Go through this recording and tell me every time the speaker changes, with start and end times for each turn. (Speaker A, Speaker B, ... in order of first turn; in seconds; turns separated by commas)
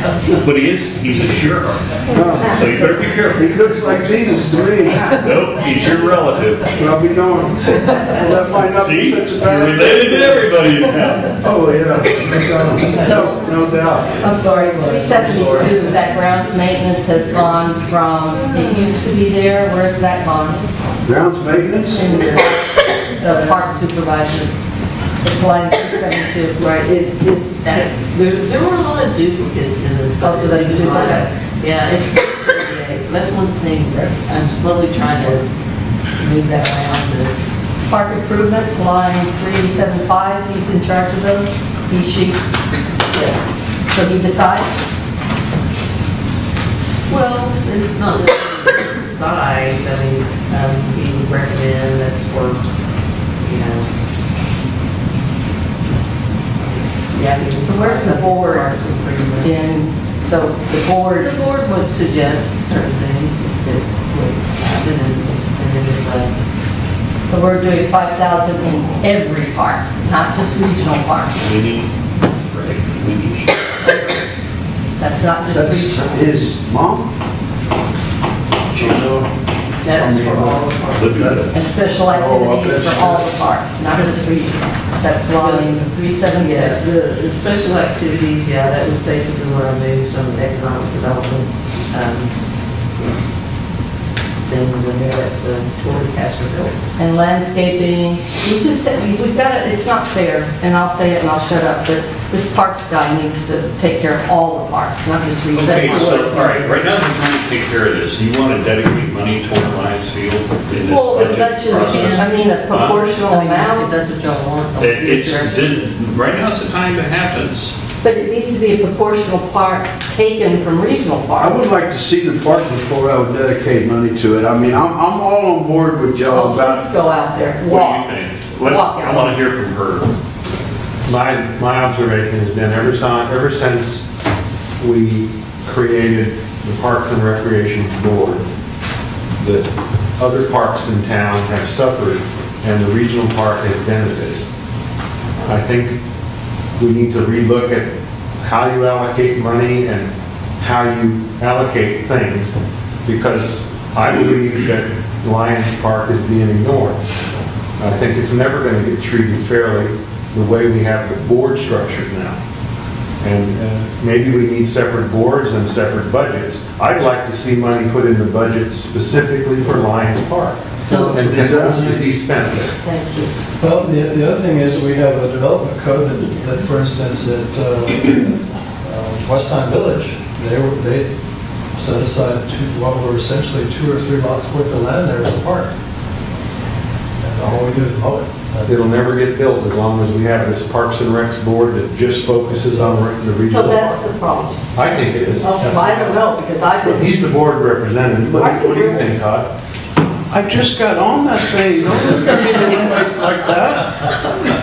Speaker A: 0.3-3.5, Speaker B: 2.1-2.6, Speaker B: 3.3-5.1, Speaker A: 5.0-6.7, Speaker B: 6.7-10.5, Speaker A: 8.4-11.4, Speaker B: 11.3-14.3, Speaker C: 13.1-13.3, Speaker C: 14.2-20.6, Speaker D: 14.3-15.9, Speaker E: 18.5-18.9, Speaker B: 21.1-22.4, Speaker C: 21.9-24.5, Speaker E: 23.2-23.7, Speaker C: 25.2-26.6, Speaker E: 26.6-35.5, Speaker C: 30.2-31.3, Speaker E: 36.2-37.3, Speaker C: 37.9-42.4, Speaker E: 43.1-43.6, Speaker C: 43.9-44.7, Speaker E: 47.1-52.7, Speaker E: 53.4-53.9, Speaker E: 57.1-59.7, Speaker C: 57.6-58.7, Speaker C: 59.4-61.3, Speaker E: 61.1-66.3, Speaker C: 67.2-71.4, Speaker A: 71.4-71.9, Speaker A: 72.4-74.1, Speaker C: 75.0-76.3, Speaker B: 75.5-77.1, Speaker B: 78.7-79.3, Speaker E: 79.8-81.3, Speaker B: 79.9-81.4, Speaker A: 80.9-81.5, Speaker C: 81.5-86.9, Speaker B: 82.0-83.4, Speaker E: 85.3-92.3, Speaker E: 94.5-96.8, Speaker C: 97.0-106.8, Speaker A: 105.5-113.1, Speaker E: 105.8-106.4, Speaker C: 110.8-113.9, Speaker E: 111.7-115.8, Speaker A: 114.8-117.7, Speaker C: 118.0-121.6, Speaker B: 121.4-126.9, Speaker C: 126.3-128.1, Speaker A: 127.6-130.1, Speaker C: 128.6-129.4, Speaker F: 131.1-134.1, Speaker F: 134.8-138.5, Speaker F: 139.4-144.4, Speaker F: 145.4-146.0, Speaker F: 146.8-152.5, Speaker F: 153.1-157.0, Speaker F: 157.8-162.4, Speaker F: 163.2-172.7, Speaker E: 170.8-171.2, Speaker B: 171.1-172.0, Speaker C: 172.8-173.3, Speaker D: 173.6-181.1, Speaker D: 181.7-185.7, Speaker D: 187.2-188.8, Speaker F: 188.7-194.1, Speaker C: 193.5-194.7, Speaker F: 194.7-196.3, Speaker C: 195.4-197.1, Speaker F: 196.8-199.5, Speaker C: 198.3-199.1, Speaker B: 200.3-203.9